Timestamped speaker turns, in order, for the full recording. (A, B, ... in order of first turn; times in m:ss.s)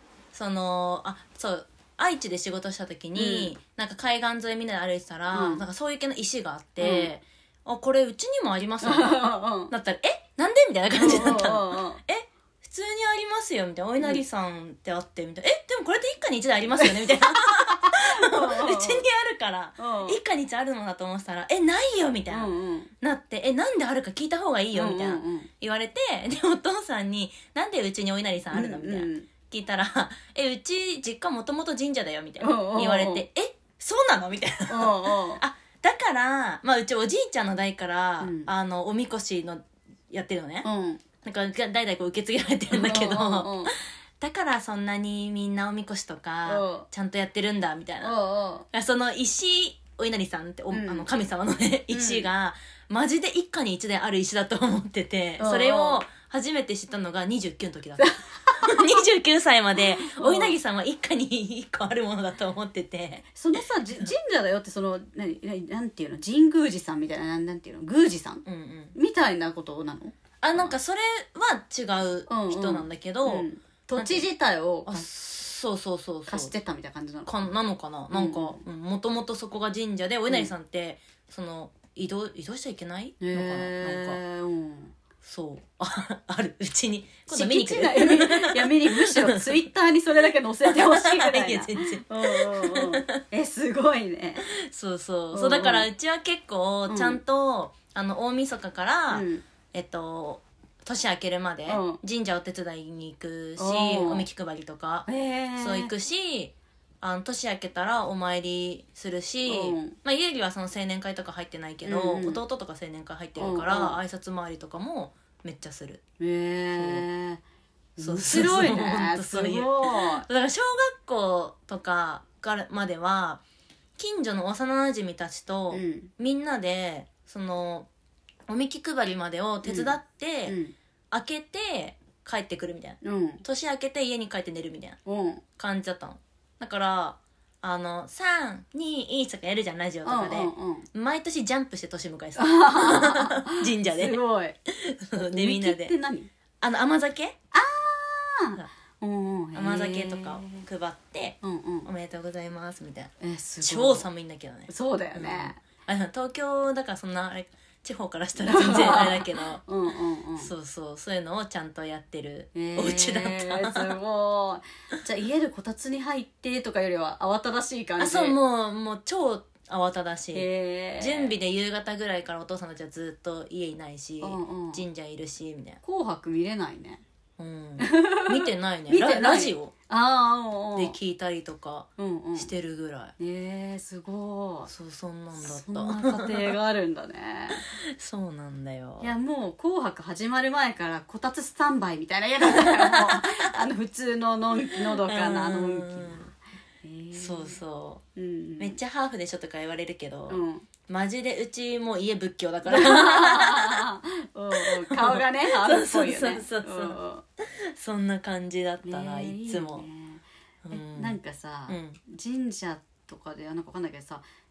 0:00.3-0:40.7 A
0:03.2-0:03.5 B
0:05.3-0:05.6 B
0:06.8-0:07.1 B
0:08.8-0:09.7 B
0:11.0-0:12.0 B
0:16.8-0:19.0 B
0:19.8-0:20.2 B
0:22.3-0:22.9 B
0:24.7-0:25.5 B
0:28.5-0:29.3 B
0:32.4-0:33.3 B
0:34.7-0:35.4 B
0:38.2-0:38.5 B
0:40.6-0:41.0 B
0:41.2-0:48.2 A
0:42.7-0:43.7 B
0:46.5-0:46.9 B
0:48.0-0:48.7 B
0:48.7-1:04.1 A
0:50.7-0:51.1 B
0:51.9-0:52.3 B
0:55.4-0:56.0 B
0:58.0-0:58.8 B
1:00.0-1:00.6 B
1:03.4-1:10.8 B
1:08.5-1:09.0 A
1:10.4-1:14.3 A
1:12.3-1:15.1 B
1:14.9-1:16.5 A
1:16.3-1:17.3 B
1:17.3-1:24.2 A
1:18.1-1:18.6 B
1:23.2-1:24.9 B
1:25.2-1:29.6 A
1:27.3-1:34.5 B
1:30.7-1:33.2 A
1:34.5-1:56.0 A
1:35.3-1:35.9 B
1:36.9-1:37.2 B
1:39.1-1:39.4 B
1:41.7-1:42.0 B
1:43.6-1:44.3 B
1:45.1-1:45.9 B
1:49.5-1:50.0 B
1:51.8-1:52.4 B
1:53.4-1:54.0 B
1:56.2-1:57.4 B
1:56.7-1:57.1 A
1:58.0-2:00.3 B
1:58.0-2:03.4 A
2:04.0-2:07.9 A
2:05.7-2:06.1 B
2:08.5-2:10.6 A
2:09.6-2:10.8 B
2:11.1-2:15.0 A
2:13.0-2:13.4 B
2:15.1-2:15.4 B
2:15.6-2:25.9 A
2:20.0-2:20.9 B
2:22.4-2:24.6 B
2:25.2-2:26.3 B
2:26.6-2:27.4 A
2:27.5-2:30.7 B
2:29.6-2:33.1 A
2:31.4-2:31.9 B
2:33.2-2:34.1 B
2:33.6-2:39.6 A
2:34.7-2:35.6 B
2:38.4-2:40.5 B
2:40.4-2:44.0 A
2:42.6-2:48.4 B
2:48.0-2:55.8 A
2:50.3-2:51.4 B
2:54.2-2:54.8 B
2:55.8-2:57.0 B
2:57.4-2:59.7 A
2:57.8-3:01.0 B
3:00.8-3:03.1 A
3:02.0-3:02.5 B
3:03.2-3:04.7 B
3:04.7-3:06.6 A
3:05.4-3:07.7 B
3:07.5-3:09.1 A
3:09.0-3:17.6 B
3:12.5-3:13.5 A
3:15.0-3:16.3 A
3:17.2-3:18.0 A
3:18.2-3:18.8 B
3:18.6-3:23.9 A
3:20.3-3:20.7 B
3:22.7-3:27.2 B
3:24.5-3:29.9 A
3:28.8-3:34.2 B
3:30.7-3:31.2 A
3:31.7-3:32.0 A